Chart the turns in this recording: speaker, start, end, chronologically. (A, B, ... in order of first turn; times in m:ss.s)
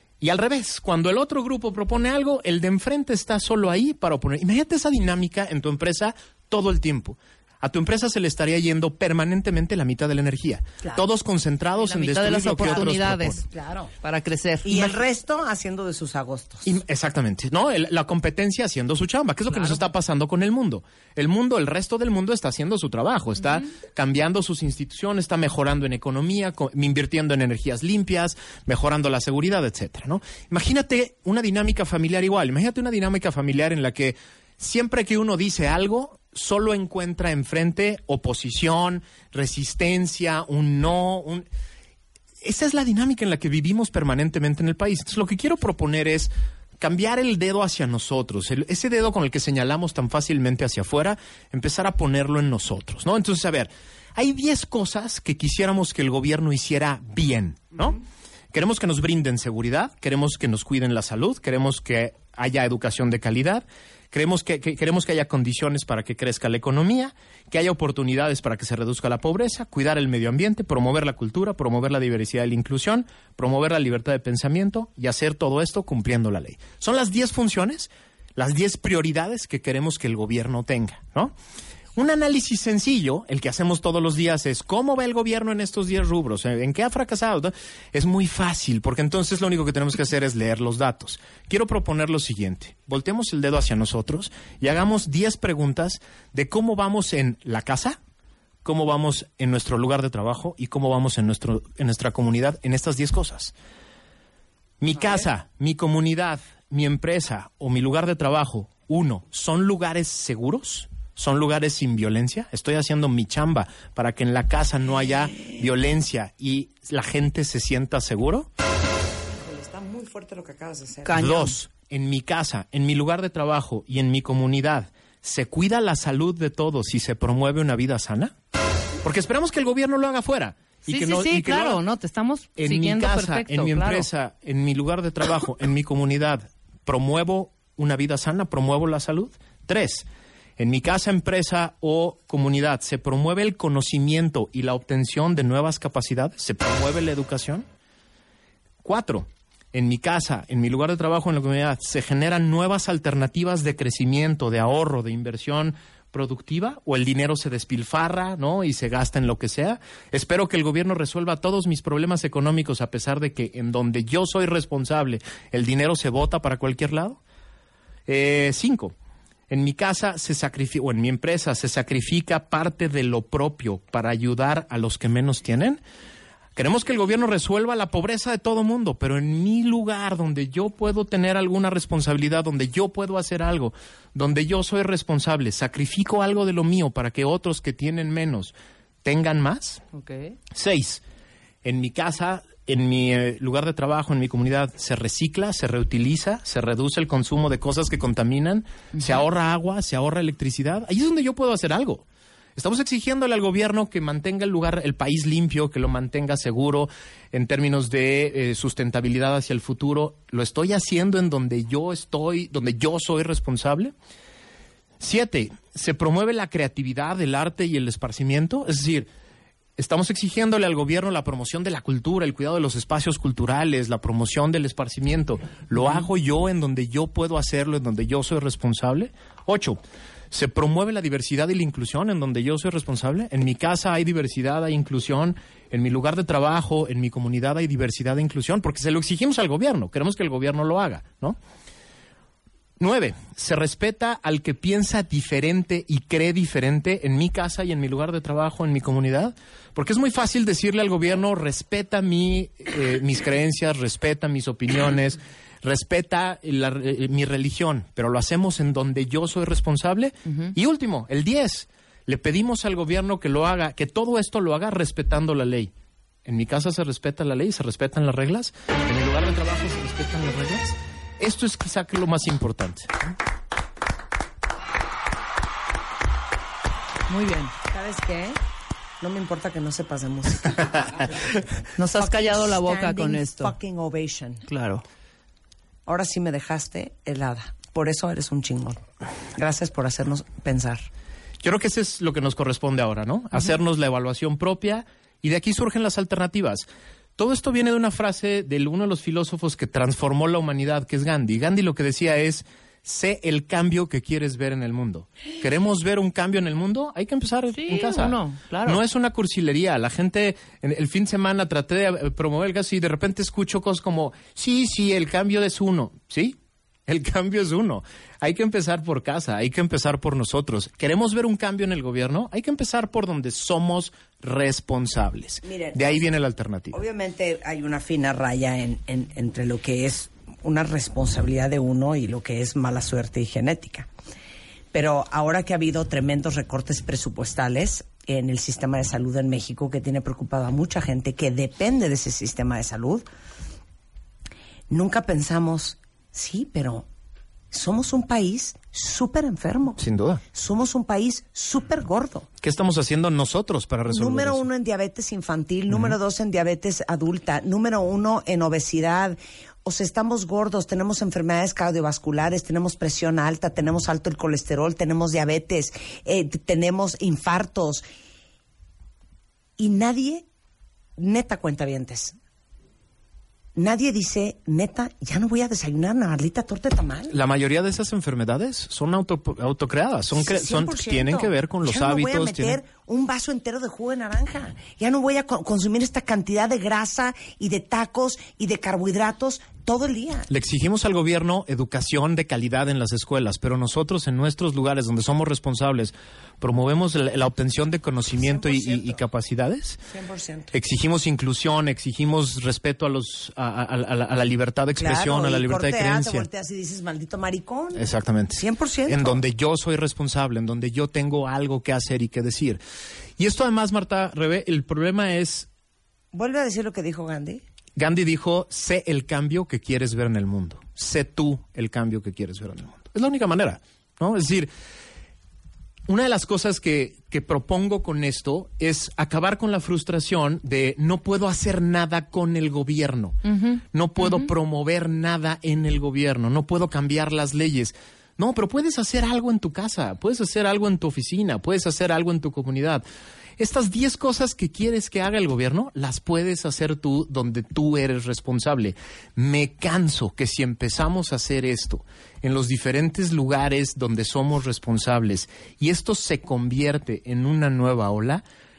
0:00.2-0:13.4 A
0:11.8-0:13.4 B
0:12.6-0:12.9 C
0:13.4-0:13.9 C
0:14.0-0:15.0 B
0:14.6-0:16.8 C
0:16.6-0:41.5 A
0:42.4-0:58.0 A
0:58.5-1:21.3 A
1:22.0-1:38.0 A
1:38.6-1:43.5 A
1:44.8-1:58.5 A
1:59.3-2:01.3 C
2:01.0-2:01.6 B
2:01.1-2:08.3 A
2:09.0-2:11.8 A
2:10.9-2:14.1 B
2:12.6-2:20.0 A
2:20.6-2:27.6 A
2:28.8-2:47.2 A
2:48.1-2:48.9 A
2:49.5-2:55.8 A
2:56.6-3:09.8 A
3:09.9-3:10.4 B
3:10.5-3:11.0 A
3:11.6-3:22.0 A
3:22.6-3:33.9 A
3:35.0-3:39.1 A
3:39.8-3:49.8 A
3:50.3-4:01.4 A
4:02.8-4:25.7 A
4:26.3-4:32.9 A
4:37.1-4:37.5 B
4:37.7-4:38.4 C
4:39.0-4:41.1 C
4:41.8-4:43.5 B
4:42.0-4:44.4 C
4:44.4-4:44.8 B
4:45.9-4:48.8 C
4:49.4-4:50.9 C
4:51.4-5:16.4 A
5:07.5-5:08.8 B
5:16.9-5:26.8 A
5:25.4-5:26.1 C
5:26.7-5:33.9 C
5:34.7-5:43.0 C
5:44.7-5:46.9 C
5:47.5-5:49.8 C
5:49.8-5:50.2 A
5:50.3-5:52.3 C
5:52.4-5:54.4 A
5:53.9-6:07.8 C
5:55.7-5:56.0 A
6:09.6-6:10.3 C
6:11.0-6:12.2 C
6:13.6-6:17.2 C
6:17.1-6:22.6 A
6:20.1-6:30.3 C
6:30.3-6:39.8 A
6:38.2-6:39.0 C
6:39.9-6:40.5 C
6:40.5-6:46.3 A
6:44.8-6:49.2 C
6:47.8-6:52.6 A
6:53.2-6:55.5 A
6:56.1-6:57.4 C
6:57.8-7:04.5 A
7:05.9-7:13.2 A
7:13.3-7:14.3 B
7:13.7-7:22.8 A
7:23.4-7:38.2 A